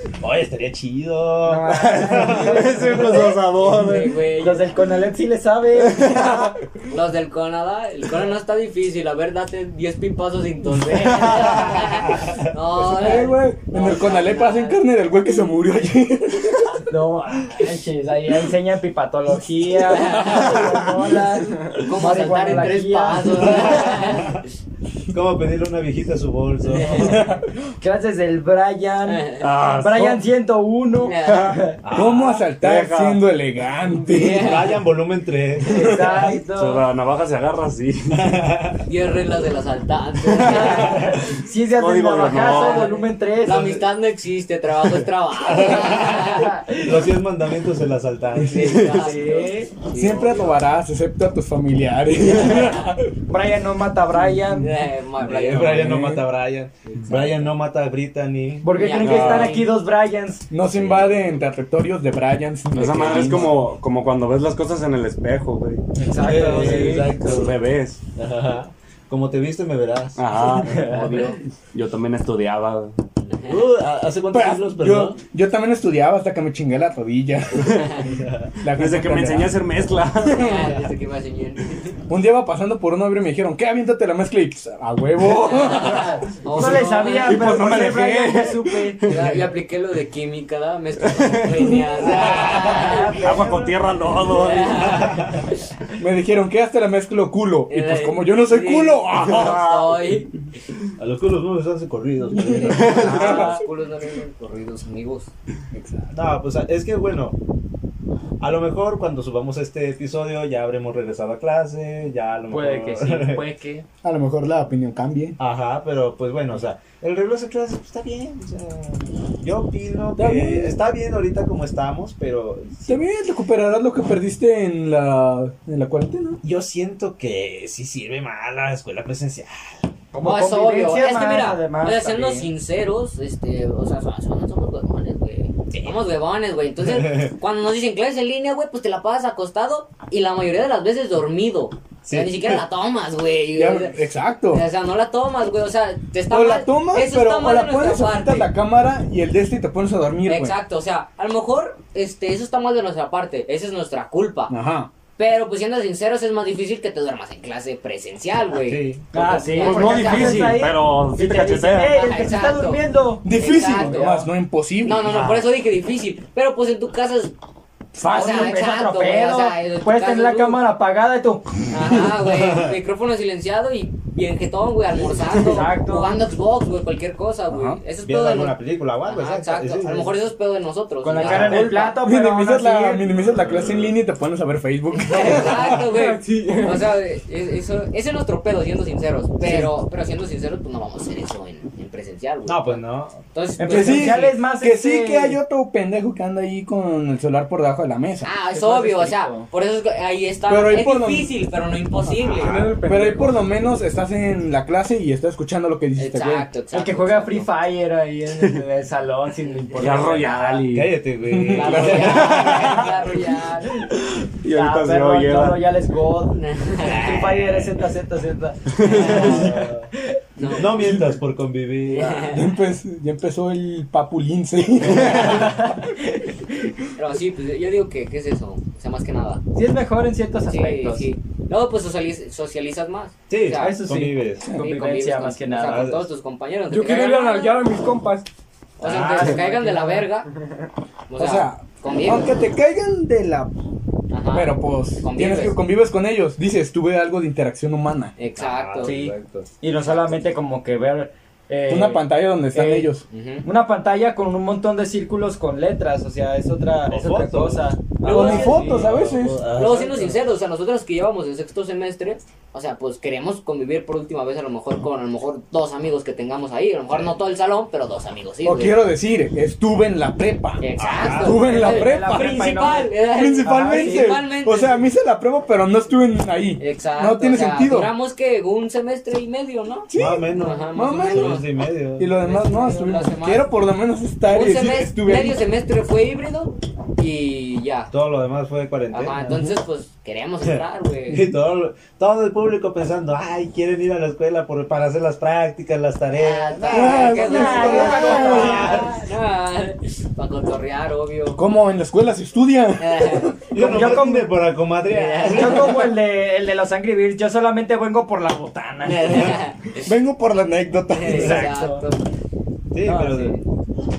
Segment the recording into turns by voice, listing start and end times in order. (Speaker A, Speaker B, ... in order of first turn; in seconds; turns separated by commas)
Speaker A: 0.2-3.3, Speaker B: 1.4-3.2, Speaker C: 2.0-4.2, Speaker D: 3.1-4.9, Speaker B: 4.4-6.5, Speaker D: 6.9-14.8, Speaker E: 12.8-16.8, Speaker B: 16.9-24.1, Speaker D: 19.9-20.7, Speaker D: 21.7-24.4, Speaker A: 23.8-24.4, Speaker A: 25.1-27.3, Speaker D: 26.8-27.2, Speaker B: 27.8-31.8, Speaker D: 29.1-29.5, Speaker C: 29.4-30.2, Speaker D: 31.0-31.6, Speaker A: 31.8-32.4, Speaker E: 31.9-34.7, Speaker C: 32.5-33.3, Speaker D: 34.1-34.8, Speaker A: 34.2-35.9, Speaker B: 35.7-36.8, Speaker C: 36.4-38.4, Speaker A: 38.1-38.9, Speaker D: 38.9-41.2, Speaker C: 40.3-43.0, Speaker B: 40.4-43.8, Speaker D: 42.2-46.6, Speaker A: 45.5-49.0, Speaker B: 45.6-47.1, Speaker D: 48.5-50.6, Speaker B: 48.6-49.7, Speaker E: 49.9-53.1, Speaker D: 52.5-52.9, Speaker B: 53.3-54.7, Speaker D: 54.6-55.9, Speaker A: 55.2-58.7, Speaker E: 55.5-56.2, Speaker D: 57.0-57.4, Speaker B: 58.6-60.5, Speaker D: 58.7-59.7, Speaker C: 59.0-59.6, Speaker E: 60.5-63.6, Speaker C: 60.7-61.4, Speaker C: 62.7-65.8, Speaker B: 65.9-67.2, Speaker A: 66.2-67.6, Speaker C: 66.4-68.0, Speaker A: 68.1-70.5, Speaker C: 70.2-73.0, Speaker B: 70.6-71.3, Speaker D: 73.3-73.6, Speaker A: 73.4-75.2, Speaker E: 74.3-79.7, Speaker A: 78.1-78.5, Speaker C: 78.7-80.8, Speaker D: 80.2-82.0, Speaker E: 82.1-86.2, Speaker D: 85.3-87.6, Speaker B: 86.5-89.1, Speaker C: 87.2-89.5, Speaker E: 87.3-88.3, Speaker D: 89.0-93.2, Speaker C: 91.0-95.2, Speaker B: 92.0-93.8, Speaker A: 92.0-92.7, Speaker A: 93.3-93.7, Speaker D: 94.2-95.7, Speaker A: 95.0-95.4, Speaker E: 96.0-99.6, Speaker D: 97.7-100.3, Speaker C: 99.2-100.2, Speaker A: 101.0-103.5, Speaker E: 102.3-103.5, Speaker D: 102.7-105.3, Speaker C: 102.7-103.3, Speaker B: 102.9-103.6, Speaker E: 105.7-106.1, Speaker A: 106.1-107.4, Speaker A: 108.4-113.4, Speaker B: 112.5-113.8, Speaker E: 114.0-115.4, Speaker A: 115.4-123.0, Speaker E: 120.2-120.7, Speaker E: 122.9-126.4, Speaker A: 126.4-129.8, Speaker B: 130.1-132.5, Speaker D: 130.2-144.0, Speaker A: 136.8-137.3, Speaker A: 142.1-142.6, Speaker E: 143.6-144.6, Speaker D: 144.5-148.5, Speaker E: 146.3-150.5, Speaker D: 150.2-154.5, Speaker E: 154.5-154.9, Speaker D: 155.2-160.6, Speaker A: 158.6-159.1, Speaker B: 159.1-164.3, Speaker C: 159.6-162.0, Speaker E: 159.8-160.5, Speaker D: 161.9-162.8, Speaker E: 163.2-165.1, Speaker D: 163.3-164.1, Speaker D: 164.8-167.3, Speaker C: 165.1-165.4, Speaker E: 167.9-168.6, Speaker B: 168.0-171.7, Speaker D: 168.0-170.6, Speaker D: 171.7-181.9, Speaker A: 172.3-172.7, Speaker B: 175.4-176.2, Speaker E: 177.5-177.8, Speaker A: 178.0-180.2, Speaker B: 181.0-183.1, Speaker E: 181.2-185.8, Speaker D: 184.9-194.3, Speaker F: 185.8-186.9, Speaker A: 192.4-193.2, Speaker B: 193.6-195.4, Speaker E: 193.6-198.3, Speaker D: 198.2-202.6, Speaker B: 198.5-199.5, Speaker E: 200.5-201.3, Speaker F: 202.3-203.5, Speaker A: 202.4-202.7, Speaker E: 202.8-206.5, Speaker D: 206.0-207.5, Speaker B: 206.7-210.7, Speaker C: 209.7-210.9, Speaker A: 210.7-212.9, Speaker E: 211.3-212.7, Speaker D: 211.5-213.8, Speaker C: 212.2-212.8, Speaker C: 214.4-215.6, Speaker B: 214.5-219.2, Speaker D: 216.3-217.6, Speaker C: 218.8-219.2, Speaker D: 218.8-219.6, Speaker A: 218.9-219.9, Speaker E: 219.2-219.5, Speaker D: 220.4-221.0, Speaker A: 220.5-222.3, Speaker D: 221.8-222.5, Speaker E: 222.3-225.8, Speaker A: 224.9-225.2, Speaker B: 225.1-226.6, Speaker D: 226.9-229.4, Speaker B: 229.5-231.1, Speaker D: 230.5-233.8, Speaker A: 233.3-234.4, Speaker B: 233.6-235.9, Speaker D: 234.5-237.7, Speaker A: 235.7-236.1, Speaker F: 236.7-238.3, Speaker D: 238.8-240.3, Speaker A: 238.8-239.4, Speaker B: 238.8-240.1, Speaker D: 241.1-242.4, Speaker E: 241.2-243.5, Speaker D: 244.1-245.6, Speaker E: 244.3-248.1, Speaker D: 248.2-248.9, Speaker A: 248.3-249.5, Speaker B: 248.8-258.9, Speaker D: 249.8-250.2, Speaker E: 251.7-253.0, Speaker D: 253.1-253.4, Speaker A: 256.9-260.3, Speaker E: 258.0-259.5, Speaker D: 259.5-268.8, Speaker E: 268.4-272.5, Speaker D: 270.6-274.7, Speaker A: 270.8-271.4, Speaker B: 271.3-274.1, Speaker E: 273.1-277.9, Speaker D: 276.6-281.4, Speaker E: 279.9-281.4, Speaker A: 279.9-282.1, Speaker E: 282.0-285.4, Speaker D: 282.1-283.5, Speaker D: 284.2-287.9, Speaker A: 287.9-289.3, Speaker D: 288.9-291.2, Speaker E: 289.3-289.5, Speaker A: 290.4-299.0, Speaker D: 296.1-301.4, Speaker E: 296.7-298.7, Speaker B: 297.2-298.7, Speaker E: 301.4-303.4, Speaker D: 302.8-303.4, Speaker A: 303.5-305.9, Speaker B: 303.5-304.4, Speaker D: 304.9-305.9, Speaker B: 305.2-309.4, Speaker D: 308.8-309.8, Speaker E: 309.8-311.4, Speaker D: 310.9-312.0, Speaker B: 311.0-311.9, Speaker A: 311.1-311.5, Speaker A: 312.7-313.4, Speaker D: 312.8-313.4